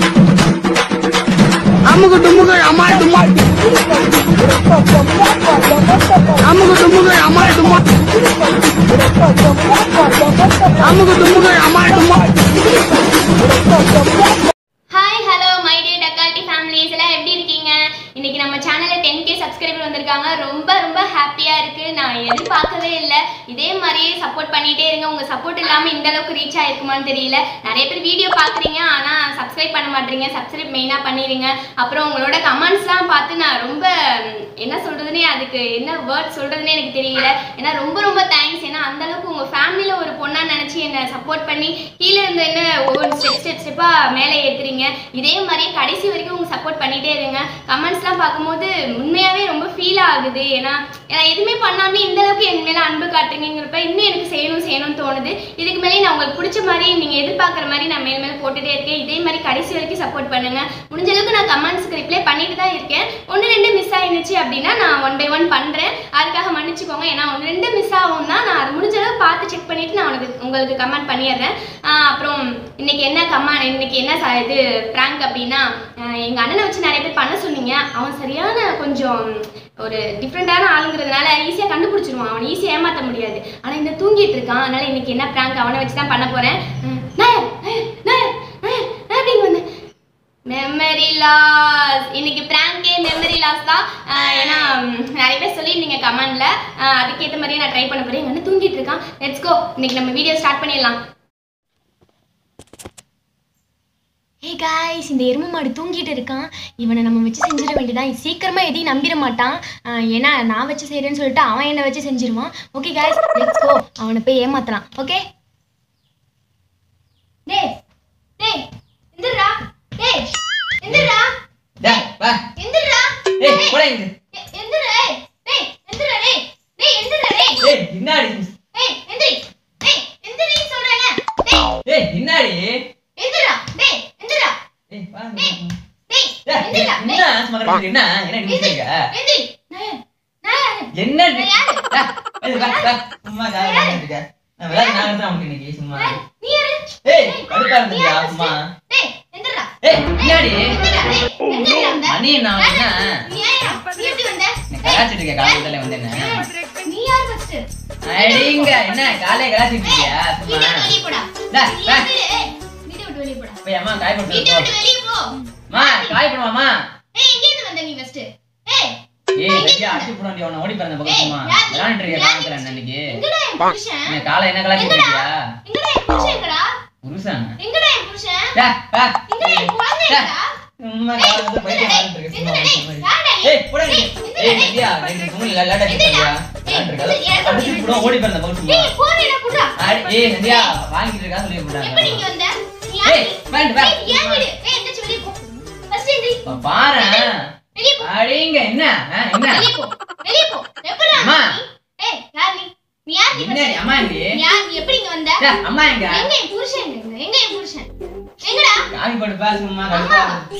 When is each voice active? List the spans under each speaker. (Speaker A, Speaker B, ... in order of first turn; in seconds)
Speaker A: 1.9-3.3, 6.4-7.8, 10.8-12.3
Speaker B: 14.9-89.6, 90.5-101.0, 104.4-115.2, 117.5-117.7, 118.4-121.3, 122.5-123.8, 124.3-127.7, 128.7-131.7, 133.2-134.5, 136.1-137.2, 138.4-141.8, 142.5-143.0, 143.6-144.0, 144.7-145.1, 145.9-163.6, 164.3-166.2, 167.1-170.1, 171.0-174.2, 174.7-176.7, 177.6-178.6, 179.3-180.4, 181.2-190.7, 191.8-196.4, 196.9-198.1, 199.5-205.5, 206.0-207.9, 208.4-208.9, 209.9-210.4
Speaker C: 120.8-121.1, 121.8-122.4, 123.4-124.1, 127.6-128.5, 131.8-132.8, 134.9-135.8, 136.4-139.1, 140.9-146.2, 147.0-148.6, 149.8-150.8, 152.0-153.1, 154.7-156.4, 158.1-160.9, 161.5-162.1, 163.6-164.7, 165.7-166.7, 169.4-173.2, 174.1-175.3, 177.0-177.5, 178.5-180.3, 180.8-188.9, 189.8-192.2, 193.0-194.4, 196.4-197.3, 198.0-199.7, 201.1-201.5, 203.3-204.4, 205.4-206.3, 208.9-210.4